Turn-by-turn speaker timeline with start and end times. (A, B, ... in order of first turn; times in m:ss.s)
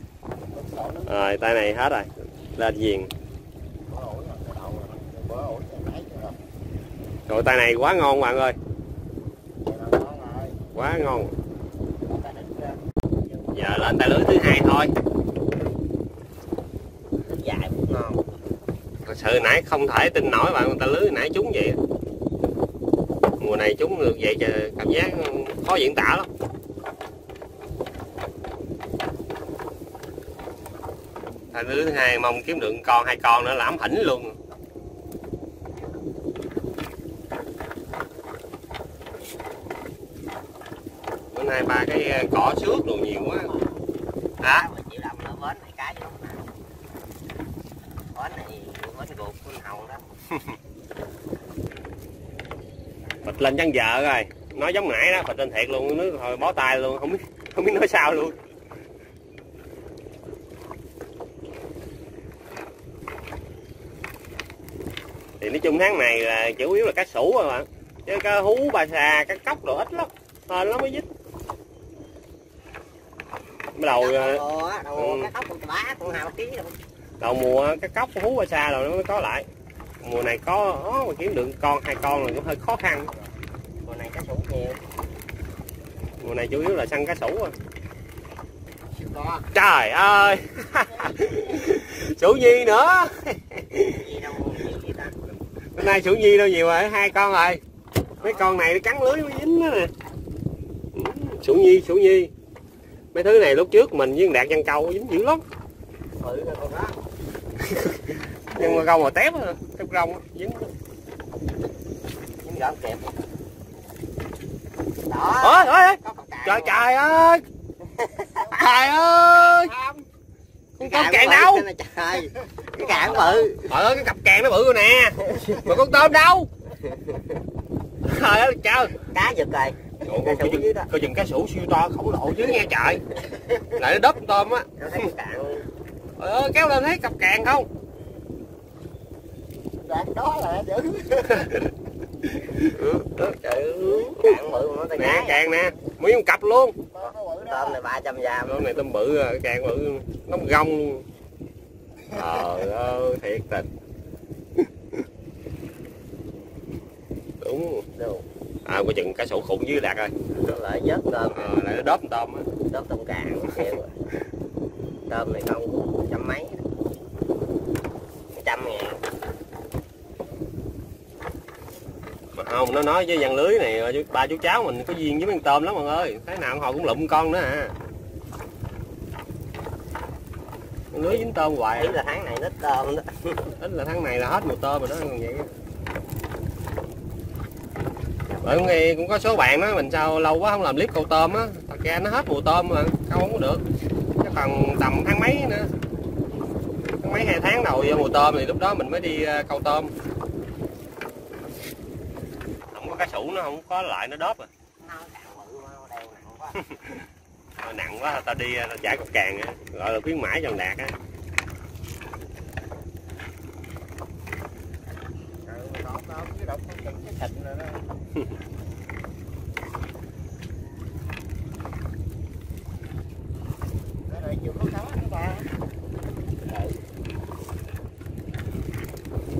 0:00.5-0:01.2 A
0:01.1-0:03.1 B
0:03.9-0:06.4 A
0:07.3-0:08.6 B
0:09.6-0:10.6 A
0:10.7-0:11.3 B
0:12.2-0:12.7 C
0:13.5-0:14.9 B
0:17.3-0:18.2 C
0:19.0-0:21.8 B
0:23.4-0:26.3 B
0:31.5-0:34.4 B
0:41.3-0:43.5 B
0:44.4-0:44.6 B
0:44.4-0:46.4 C
0:48.1-0:50.0 C
0:53.2-0:58.4 B
1:05.4-1:11.1 B
1:13.7-1:14.4 B
1:13.9-1:16.7 C
1:15.0-1:15.3 B
1:17.2-1:19.5 B
1:20.0-1:23.1 B
1:23.8-1:24.8 C
1:26.2-1:27.5 B
1:29.0-1:29.4 A
1:29.5-1:34.0 B
1:33.8-1:35.1 C
1:35.8-1:37.6 B
1:38.2-1:39.9 B
1:40.9-1:42.3 B
1:43.1-1:45.4 B
1:46.2-1:46.9 C
1:47.6-1:50.7 B
1:52.4-1:53.1 C
1:55.1-1:56.8 C
1:55.4-1:57.4 B
1:57.8-1:58.5 C
1:58.5-1:59.7 B
1:59.3-2:00.0 A
2:00.8-2:01.7 B
2:00.8-2:03.7 C
2:02.9-2:06.5 B
2:06.9-2:07.2 C
2:08.0-2:08.9 B
2:09.1-2:10.9 C
2:10.0-2:13.0 B
2:13.7-2:14.7 B
2:14.8-2:15.6 C
2:16.2-2:17.7 B
2:19.8-2:21.6 A
2:22.3-2:23.2 B
2:22.8-2:25.4 C
2:23.8-2:24.3 B
2:25.0-2:26.8 B
2:26.9-2:27.8 A
2:27.5-2:28.7 C
2:28.5-2:31.0 B
2:32.1-2:33.7 B
2:37.4-2:37.9 B
2:38.0-2:38.2 C
2:38.6-2:40.1 B
2:40.3-2:41.5 C
2:41.3-2:42.5 B
2:42.6-2:43.9 C
2:45.1-2:46.6 C
2:48.3-2:49.0 C
2:52.3-2:57.7 B
3:00.9-3:02.0 B
3:01.8-3:03.4 C
3:03.6-3:05.5 B
3:08.4-3:08.7 C
3:08.4-3:13.6 B
3:14.2-3:15.7 B
3:17.0-3:19.9 B
3:22.7-3:24.5 B
3:24.8-3:26.6 C
3:26.7-3:27.0 B
3:27.6-3:30.9 B
3:35.4-3:37.8 A
3:44.1-3:45.5 A
3:46.5-3:46.7 C